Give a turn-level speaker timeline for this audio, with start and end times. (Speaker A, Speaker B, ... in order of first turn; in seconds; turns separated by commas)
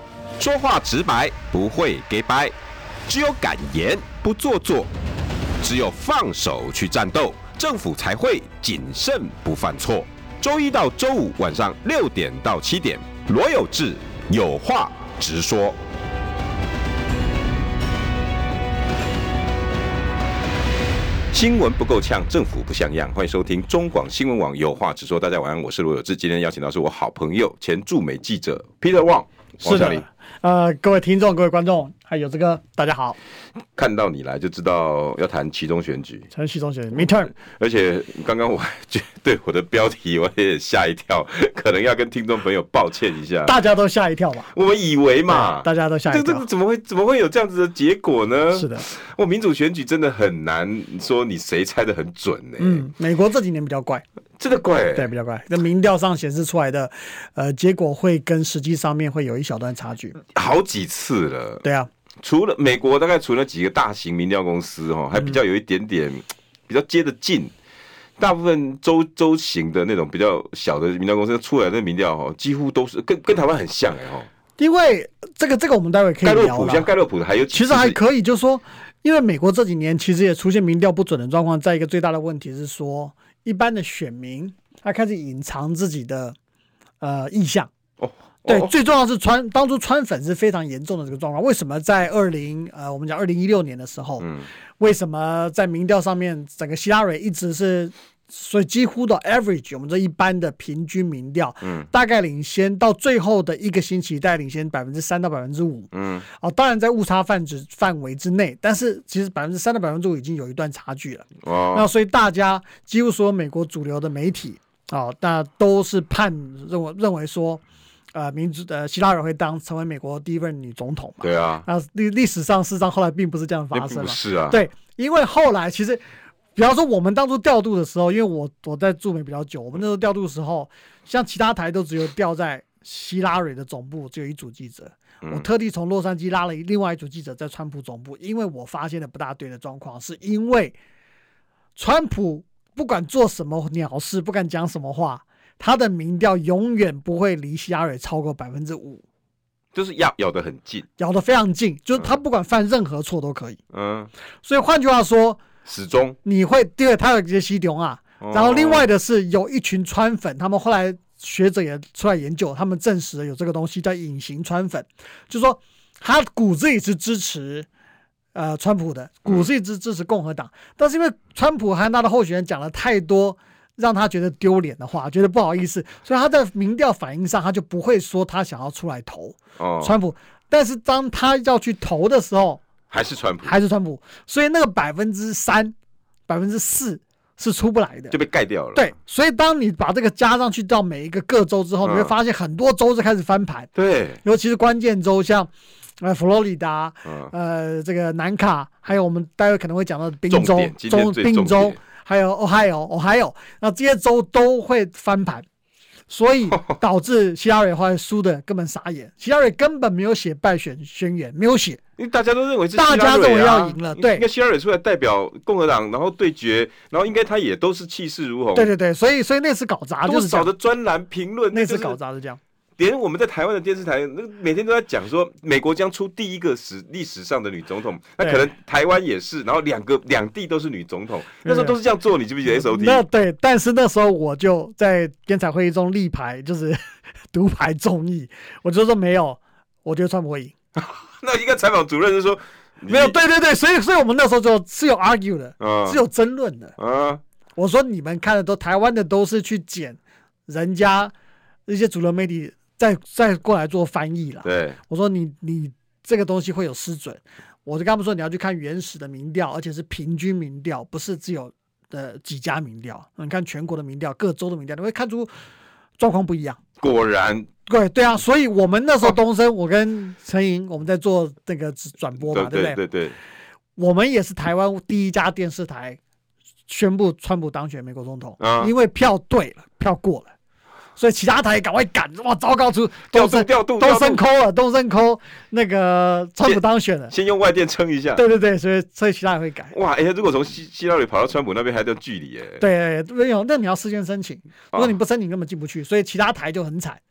Speaker A: 0.4-2.5, Speaker A: 3.1-4.9, Speaker A: 5.6-15.8, Speaker A: 21.3-30.0, Speaker B: 29.6-33.2, Speaker A: 33.7-36.3, Speaker B: 36.3-37.3, Speaker A: 37.0-43.6, Speaker B: 43.5-44.5, Speaker A: 44.5-52.9, Speaker B: 45.3-46.5, Speaker B: 48.5-48.9, Speaker B: 52.6-54.0, Speaker A: 54.4-55.1, Speaker B: 54.9-60.2, Speaker A: 60.3-61.6, Speaker B: 61.6-61.9, Speaker A: 62.2-67.5, Speaker A: 68.2-74.3, Speaker B: 74.6-76.9, Speaker A: 76.2-78.0, Speaker B: 77.5-86.3, Speaker B: 87.0-87.7, Speaker A: 88.0-88.7, Speaker B: 88.5-117.6, Speaker A: 94.2-94.5, Speaker A: 105.9-106.2, Speaker A: 111.4-111.9, Speaker B: 118.1-126.0, Speaker A: 121.2-121.7, Speaker A: 123.7-124.6, Speaker B: 126.5-140.8, Speaker B: 141.8-149.0, Speaker A: 149.7-150.9, Speaker B: 151.0-153.6, Speaker A: 153.7-154.1, Speaker B: 154.4-155.4, Speaker A: 155.6-156.2, Speaker B: 156.2-167.7, Speaker A: 158.2-158.9, Speaker B: 168.3-182.6, Speaker A: 179.6-179.9, Speaker A: 182.9-183.6, Speaker B: 183.4-185.7, Speaker B: 186.3-188.2, Speaker A: 188.1-188.9, Speaker B: 188.7-193.7, Speaker A: 191.8-192.1, Speaker A: 193.7-194.2, Speaker B: 194.2-205.4, Speaker A: 197.0-197.3, Speaker A: 200.3-201.8, Speaker B: 206.1-211.8, Speaker A: 212.0-218.7, Speaker B: 212.7-214.2, Speaker B: 218.5-220.5, Speaker A: 220.0-222.0, Speaker B: 221.5-222.4, Speaker A: 222.8-233.0, Speaker B: 228.2-228.5, Speaker B: 231.4-231.8, Speaker B: 232.5-236.8, Speaker B: 237.3-240.5, Speaker A: 240.8-243.2, Speaker B: 242.9-246.7, Speaker A: 245.6-246.0, Speaker A: 246.8-247.2, Speaker B: 247.6-251.1, Speaker B: 251.7-265.3, Speaker A: 254.4-254.8, Speaker B: 266.0-266.6, Speaker A: 266.8-267.5, Speaker B: 267.6-272.8, Speaker A: 272.2-273.1, Speaker B: 273.8-276.0, Speaker B: 276.7-280.3, Speaker A: 278.4-278.7, Speaker B: 280.9-287.1, Speaker A: 283.1-284.2, Speaker A: 286.4-288.2, Speaker B: 288.1-289.7, Speaker A: 289.7-292.6, Speaker B: 292.6-297.0